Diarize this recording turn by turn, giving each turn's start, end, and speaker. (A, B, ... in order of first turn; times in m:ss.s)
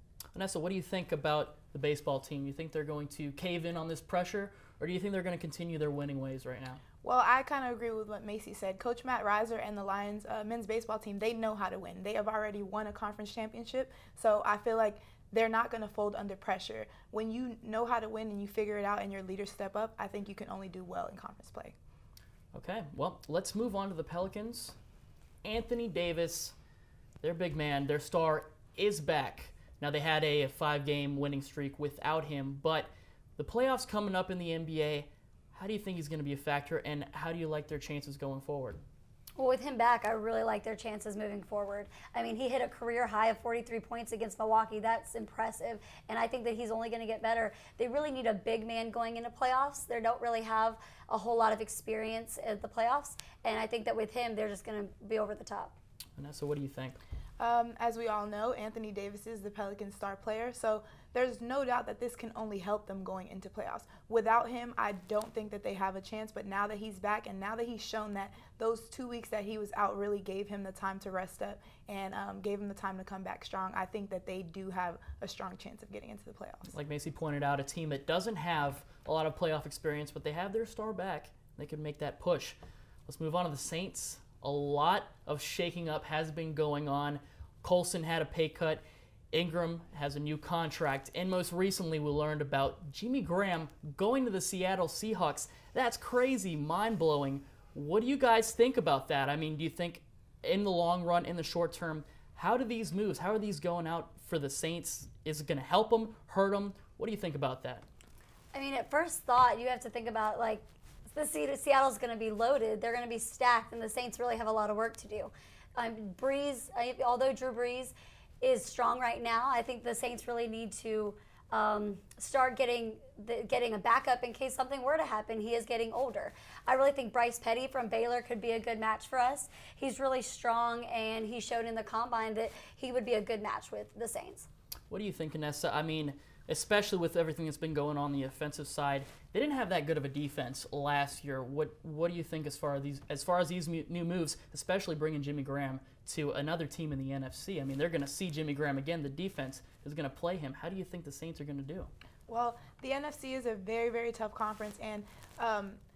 0:00.4-0:06.8 A
0:07.0-0:21.8 B
0:22.5-0:24.8 A
0:25.4-0:26.6 A
0:27.2-0:38.8 A
0:39.4-0:55.8 C
0:56.2-0:57.0 A
0:57.4-1:16.7 B
1:16.7-1:47.9 A
1:48.5-2:14.5 C
2:14.9-2:31.9 A
2:32.3-2:35.8 B